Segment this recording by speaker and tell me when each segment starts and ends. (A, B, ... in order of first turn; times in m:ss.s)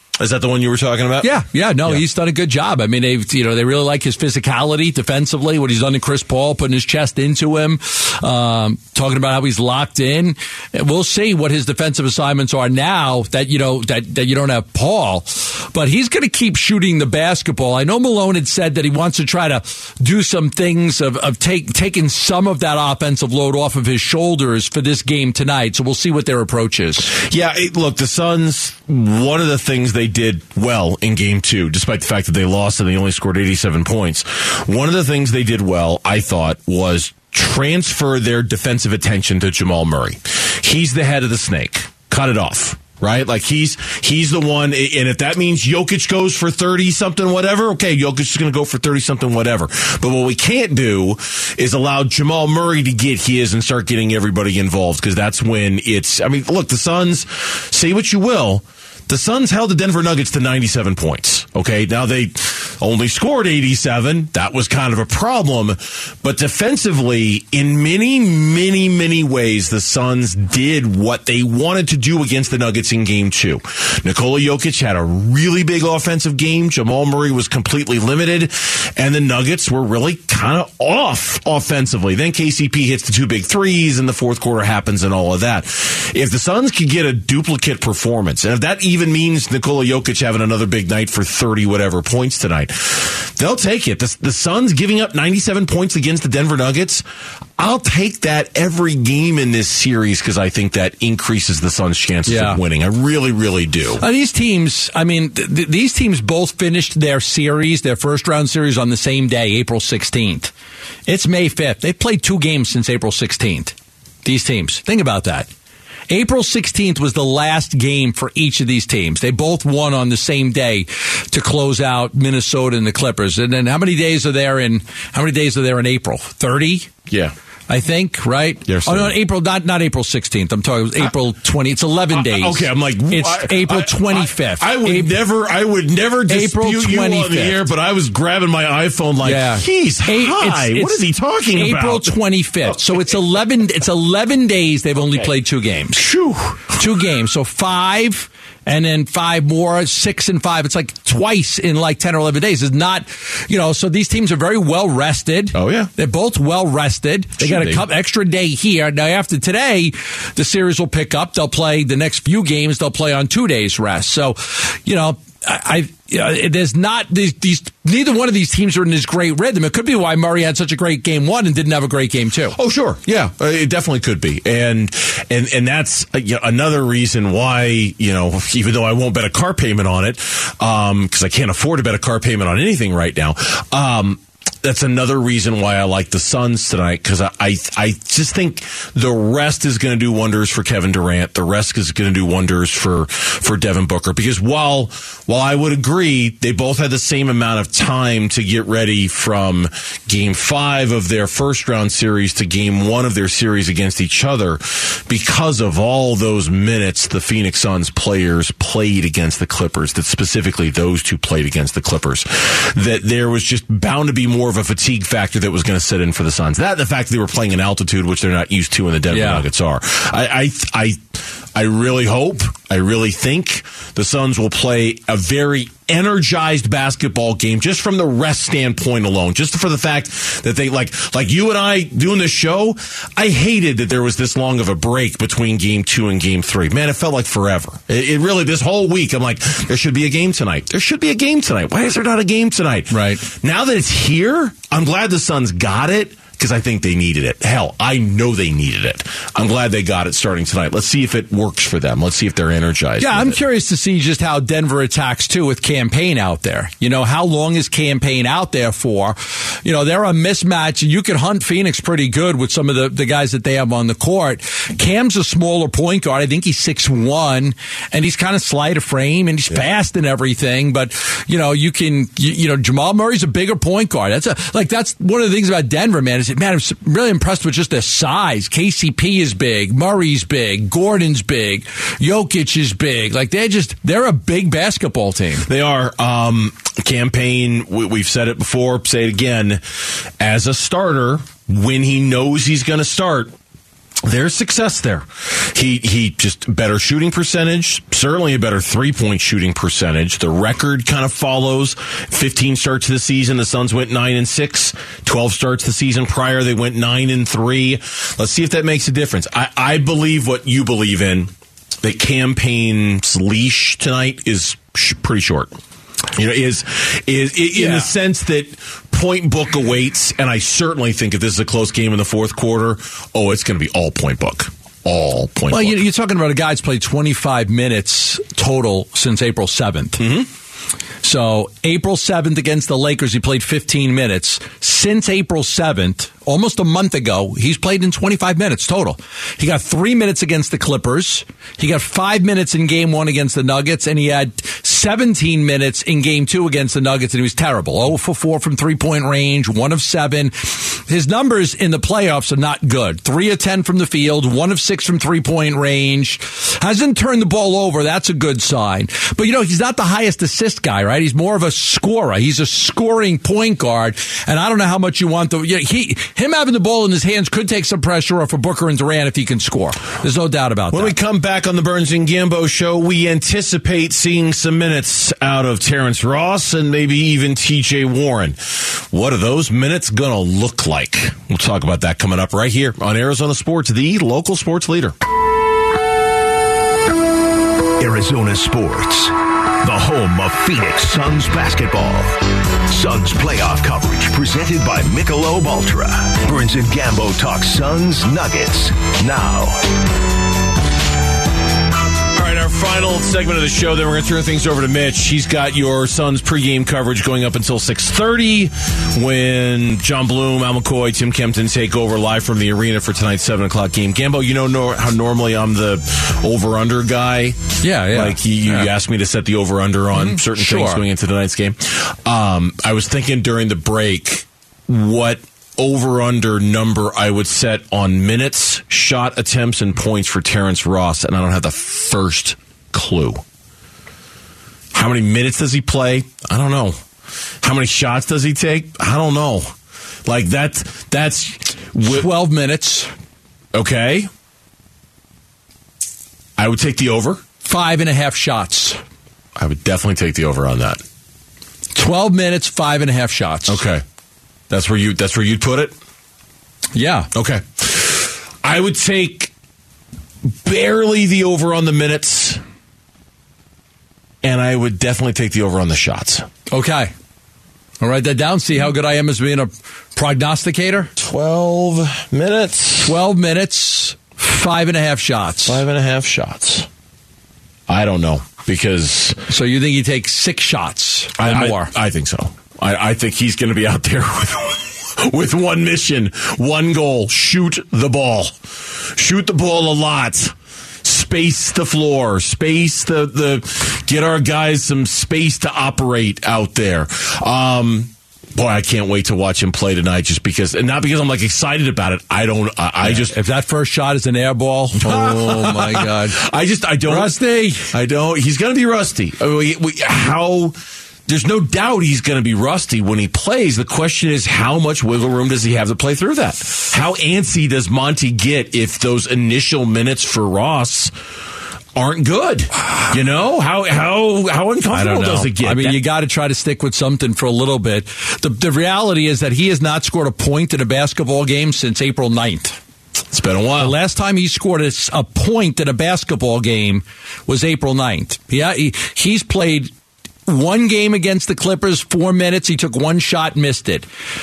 0:00.2-0:01.3 A
0:01.2-0:27.1 B
0:27.1-1:37.0 A
1:37.6-1:44.0 A
1:42.3-1:42.6 B
1:44.0-1:50.5 B
1:51.1-1:55.5 B
1:56.1-2:06.9 B
2:07.1-2:07.3 A
2:07.7-2:15.1 B
2:08.7-2:09.1 A
2:12.1-2:22.8 A
2:16.3-2:17.6 B
2:19.2-2:26.1 B
2:26.0-2:26.7 A
2:26.7-2:52.6 B
2:35.5-2:35.9 A
2:37.4-2:37.9 A
2:52.5-3:41.0 A
3:39.1-3:39.5 B
3:41.5-4:13.4 A
4:02.9-4:03.2 B
4:13.0-4:45.5 B
4:45.4-4:49.6 A
4:50.2-4:53.3 A
4:54.0-5:15.6 A
5:16.1-5:25.8 A
5:17.6-5:17.9 B
5:25.5-5:30.1 B
5:30.0-5:30.3 A
5:31.0-6:11.0 B
6:10.7-6:25.0 A
6:27.8-6:39.6 C
6:42.1-7:13.2 A
6:57.6-6:58.7 B
6:59.9-7:00.8 B
7:14.7-7:16.8 A
7:17.4-7:22.1 A
7:21.8-7:22.9 B
7:23.5-7:24.1 A
7:26.4-7:27.2 A
7:27.4-7:28.8 B
7:29.4-7:30.8 A
7:31.8-7:33.6 B
7:33.5-7:33.8 A
7:34.5-7:35.8 A
7:36.8-7:37.1 B
7:37.1-7:39.3 A
7:40.2-7:42.4 A
7:44.2-7:46.3 A
7:46.5-7:46.9 B
7:47.8-7:50.9 B
7:51.0-7:53.0 A
7:52.8-7:55.6 B
7:55.5-7:56.7 A
7:57.7-7:59.2 A
7:59.3-8:01.7 B
8:01.2-8:23.1 A
8:22.8-8:26.2 B
8:24.8-8:30.6 A
8:26.8-8:27.7 B
8:31.1-8:40.9 A
8:41.8-8:45.8 A
8:44.7-8:52.6 B
8:53.1-8:53.8 A
8:53.6-8:59.7 B
9:00.3-9:03.9 B